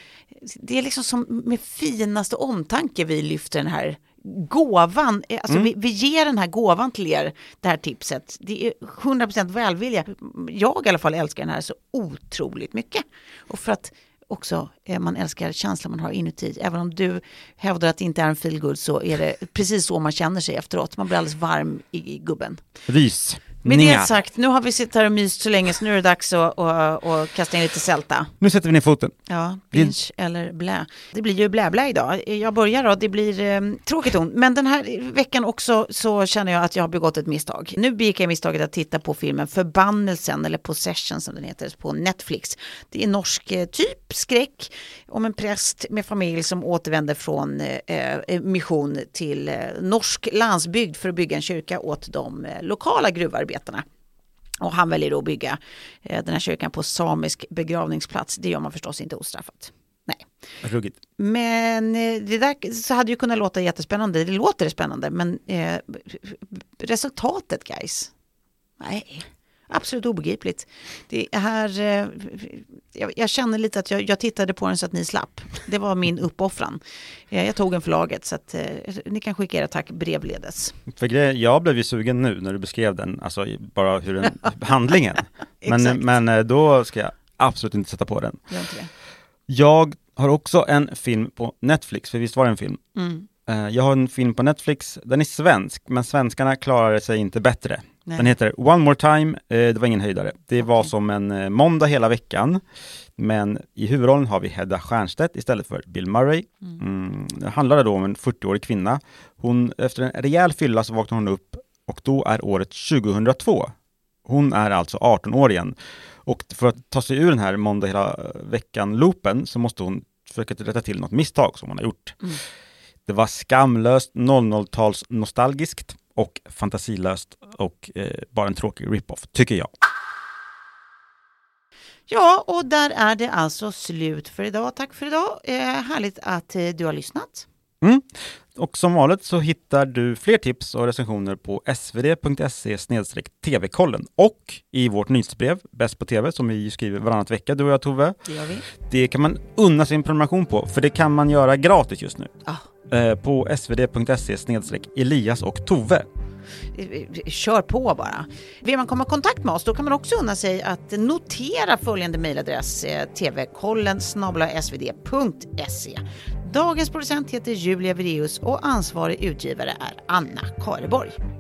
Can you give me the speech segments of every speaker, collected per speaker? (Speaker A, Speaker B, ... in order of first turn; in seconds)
Speaker A: 0.3-22.6, 23.6-28.3, 29.3-53.8, 54.6-60.3, 61.2-68.1, 68.8-80.7, 85.6-86.1, 88.5-88.9, 93.0-93.3, 98.0-98.3, 132.1-137.4, 148.2-148.6, 156.7-171.2
Speaker B: 22.9-24.1, 28.4-29.1, 60.6-61.0, 80.9-88.4, 89.5-92.8, 93.5-102.6, 103.2-113.7, 114.2-122.2, 123.1-129.7, 137.8-148.2, 148.8-152.3, 152.9-156.1